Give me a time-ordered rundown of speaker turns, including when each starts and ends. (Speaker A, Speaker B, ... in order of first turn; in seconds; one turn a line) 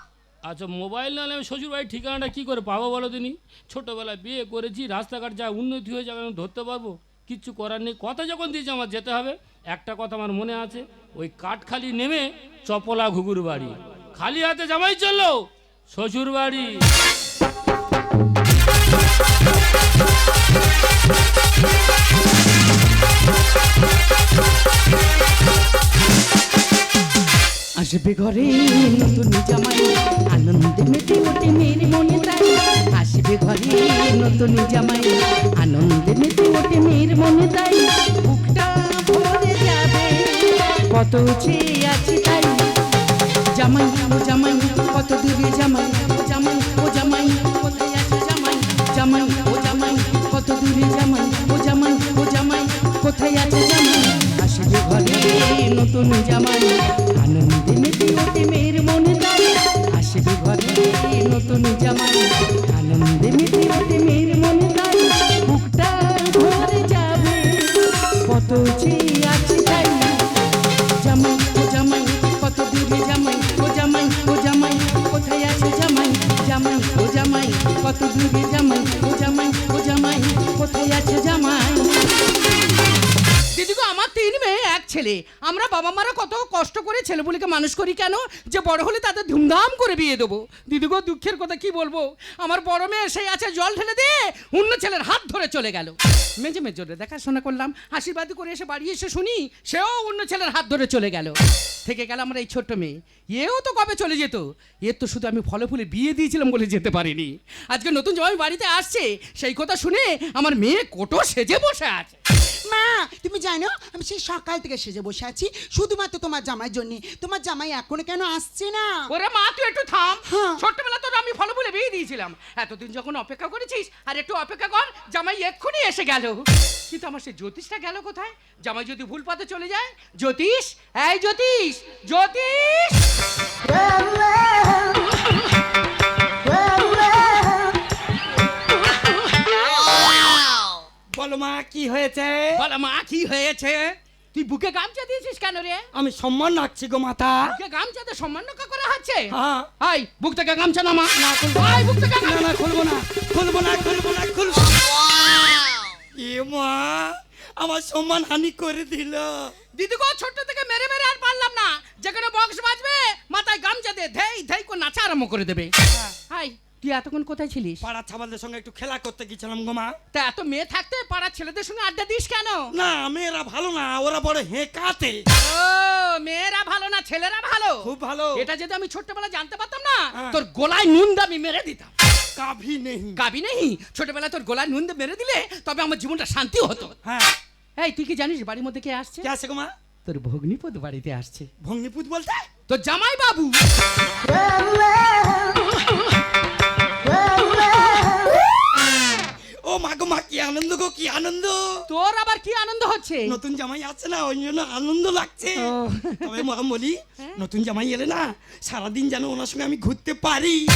Speaker A: 0.4-16.8
Speaker B: 27.8-42.6
Speaker B: 43.5-70.2
Speaker B: 71.0-82.2
Speaker B: 83.5-112.2
Speaker C: 112.7-119.1
Speaker B: 119.1-133.1
Speaker C: 120.3-120.6
Speaker D: 141.1-142.6
Speaker B: 142.5-145.9
Speaker D: 145.9-147.6
Speaker B: 147.5-152.6
Speaker D: 149.3-149.7
Speaker D: 151.2-159.5
Speaker B: 159.7-165.7
Speaker B: 166.3-167.8
Speaker D: 167.8-169.9
Speaker B: 170.1-172.7
Speaker D: 172.7-175.2
Speaker B: 175.4-181.9
Speaker D: 177.8-178.5
Speaker D: 182.3-183.2
Speaker B: 183.2-186.9
Speaker D: 187.0-187.3
Speaker B: 187.8-189.3
Speaker D: 189.2-189.7
Speaker B: 190.1-191.5
Speaker D: 191.6-192.4
Speaker B: 192.7-193.6
Speaker D: 199.6-201.6
Speaker B: 201.9-203.4
Speaker D: 203.3-205.7
Speaker B: 205.6-206.4
Speaker D: 206.2-210.6